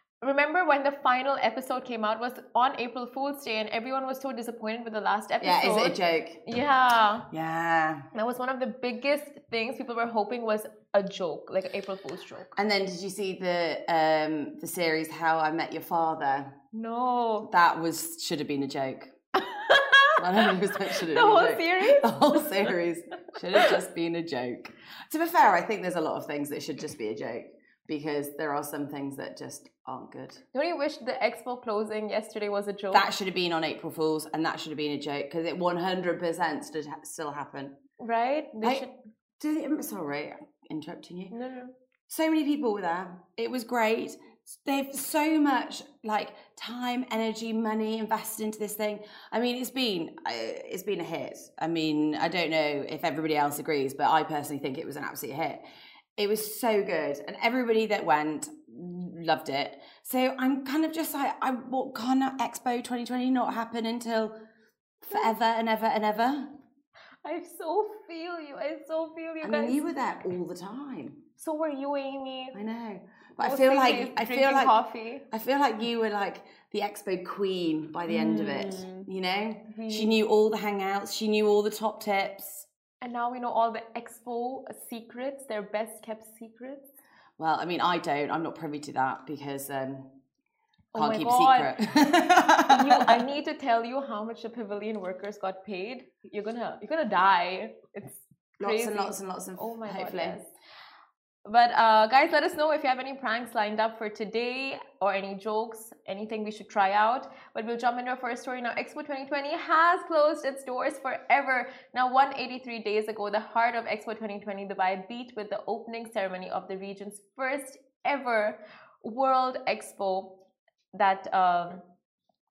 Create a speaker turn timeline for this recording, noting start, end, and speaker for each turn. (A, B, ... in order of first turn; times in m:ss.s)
0:00.2-0:07.3 A
0:05.4-0:06.4 B
0:07.3-0:08.1 B
0:08.1-0:12.5 A
0:12.6-0:16.6 B
0:16.7-0:17.5 A
0:17.5-0:19.1 B
0:19.4-0:22.7 A
0:20.2-0:30.4 B
0:30.5-0:33.1 A
0:32.9-0:37.8 B
0:38.0-0:38.9 A
0:39.4-0:41.3 B
0:41.3-0:41.7 A
0:42.1-0:55.6 B
0:56.2-1:04.3 B
1:05.0-1:06.5 B
1:07.2-1:09.8 A
1:09.4-1:11.2 B
1:11.4-1:12.6 A
1:12.5-1:14.8 B
1:13.4-1:15.2 A
1:15.3-1:22.7 B
1:18.1-1:19.1 A
1:19.7-1:20.2 A
1:23.0-1:26.9 A
1:27.4-1:30.1 B
1:30.9-1:32.2 A
1:30.9-1:33.2 B
1:32.7-1:40.5 A
1:38.6-1:40.4 B
1:41.4-2:00.4 A
2:00.9-2:01.8 A